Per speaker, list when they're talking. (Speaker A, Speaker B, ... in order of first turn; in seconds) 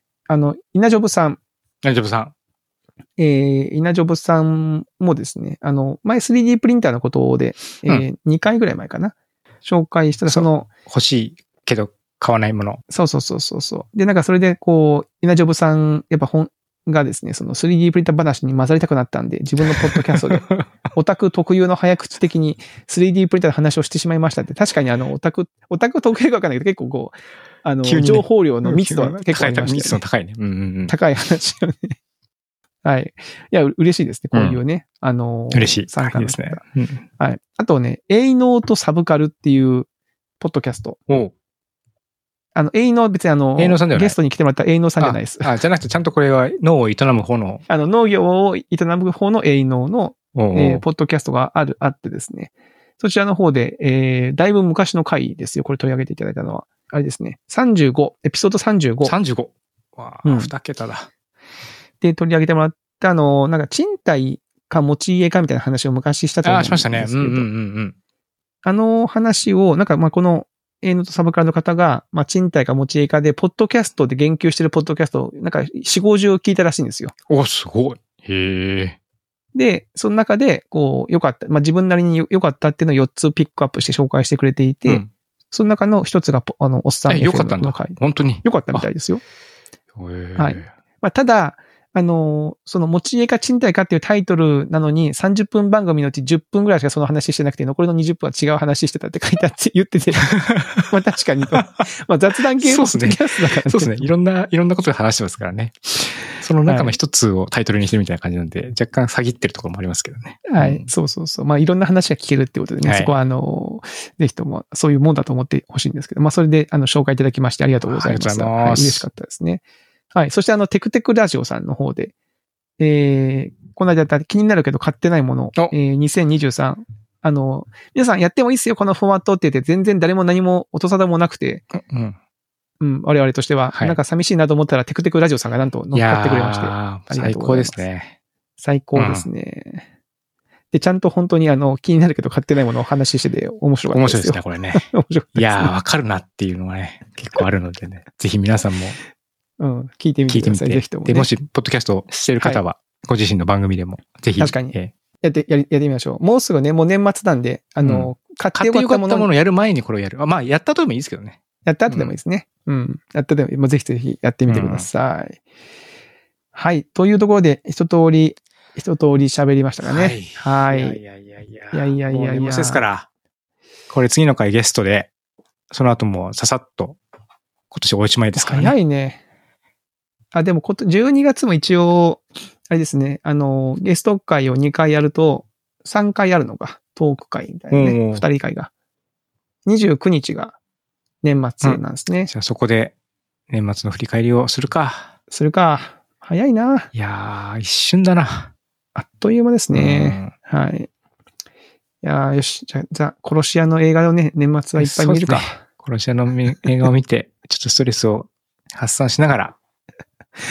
Speaker A: 0.3-1.4, 3.2-10.7, 12.9-30.0, 30.9-31.9, 32.8-36.6, 37.2-39.9, 40.4-41.0, 42.5-45.5, 47.7-59.1, 60.2-60.5, 62.0-67.5, 68.6-77.1, 79.5-89.2, 90.4-104.1, 106.7-107.0, 110.5-119.6, 120.1-122.1, 122.8-131.6, 132.8-137.8, 138.6-139.8, 140.7-145.7, 149.6-151.3, 154.4-159.3, 161.6-165.4, 166.5-171.0, 171.7-172.8, 178.3-179.2, 180.3-188.7, 189.7-190.6, 191.2-192.3, 195.3-196.9, 198.9-200.9, 202.0-205.6
Speaker B: 1.8-2.3, 10.3-12.8, 19.6-20.7, 27.8-30.9, 34.3-34.6, 35.5-37.0, 41.1-41.3, 43.6-44.2, 45.0-47.6, 50.3-50.8, 59.0-61.1, 66.4-67.9, 77.3-79.0, 87.1-88.9, 90.0-90.7, 100.2-100.9, 101.5-101.9, 102.6-110.9, 112.8-113.1, 117.8-119.0, 131.7-132.2, 133.7-134.0, 135.9-138.2, 138.9-139.3, 143.9-149.0, 150.3-154.9, 157.8-162.1, 164.5-164.9, 169.8-173.1, 173.9-175.1, 175.7-177.0, 177.7-178.7, 187.7-188.2, 191.6-192.9, 193.5-195.1, 196.9-198.5, 199.7-200.3, 204.8-209.5